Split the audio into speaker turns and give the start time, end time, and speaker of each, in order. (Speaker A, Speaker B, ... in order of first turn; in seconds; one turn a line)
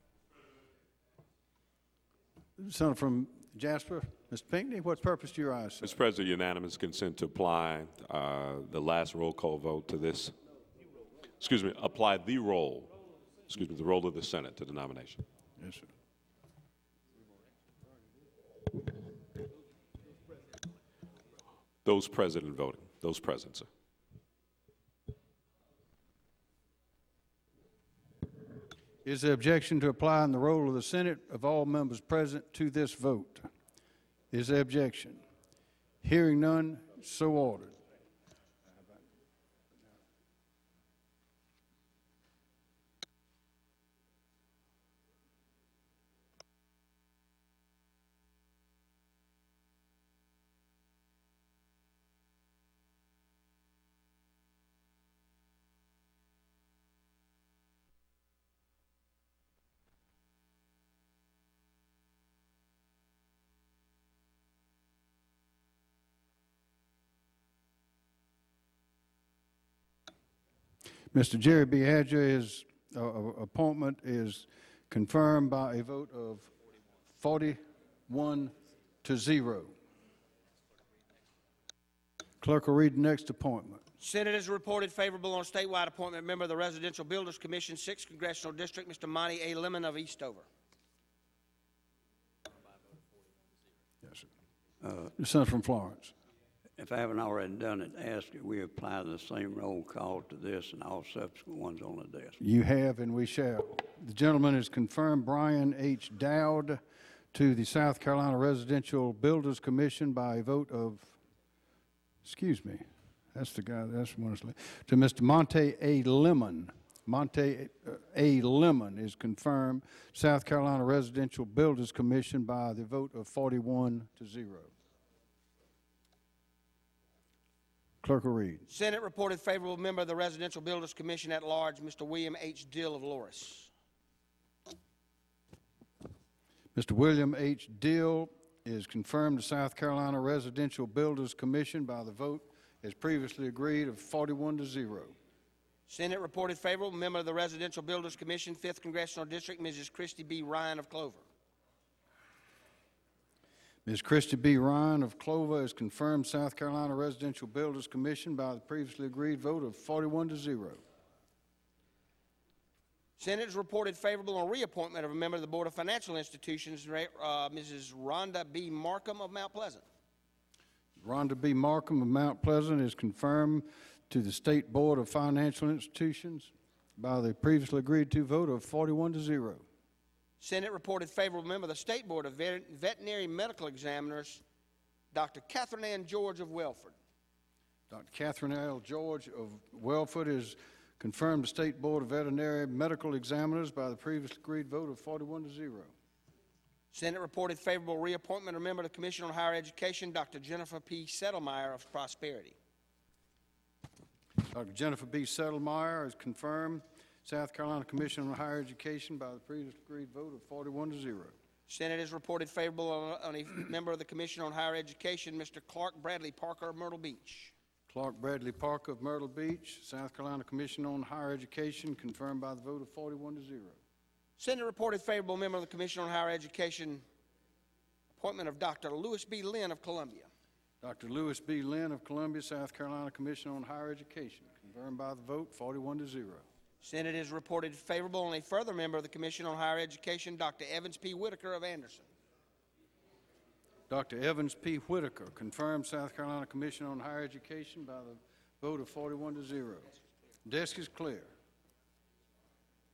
Speaker A: 2.6-6.0
Speaker B: 5.8-10.3
Speaker B: 11.4-12.9
Speaker B: 13.5-15.2
Speaker A: 15.6-15.9
Speaker B: 21.9-23.7
Speaker A: 29.1-33.5
Speaker A: 34.3-35.2
Speaker A: 36.0-37.8
Speaker A: 71.1-76.5
Speaker A: 77.1-78.5
Speaker A: 79.0-79.7
Speaker A: 82.4-83.8
Speaker C: 84.0-90.5
Speaker A: 95.2-96.1
Speaker D: 96.8-102.4
Speaker A: 102.4-106.8
Speaker A: 107.3-111.2
Speaker A: 112.2-124.7
Speaker A: 128.0-128.7
Speaker C: 128.7-133.7
Speaker A: 136.8-145.2
Speaker C: 145.9-151.2
Speaker A: 153.9-160.8
Speaker C: 163.2-169.8
Speaker A: 171.0-179.6
Speaker C: 180.4-184.4
Speaker C: 185.1-187.0
Speaker A: 187.9-195.9
Speaker C: 196.9-202.6
Speaker A: 204.4-211.3
Speaker C: 211.7-217.5
Speaker A: 217.9-223.8
Speaker C: 224.4-227.0
Speaker C: 228.2-230.3
Speaker A: 230.8-236.5
Speaker C: 236.8-242.1
Speaker A: 243.9-249.9
Speaker A: 250.4-251.3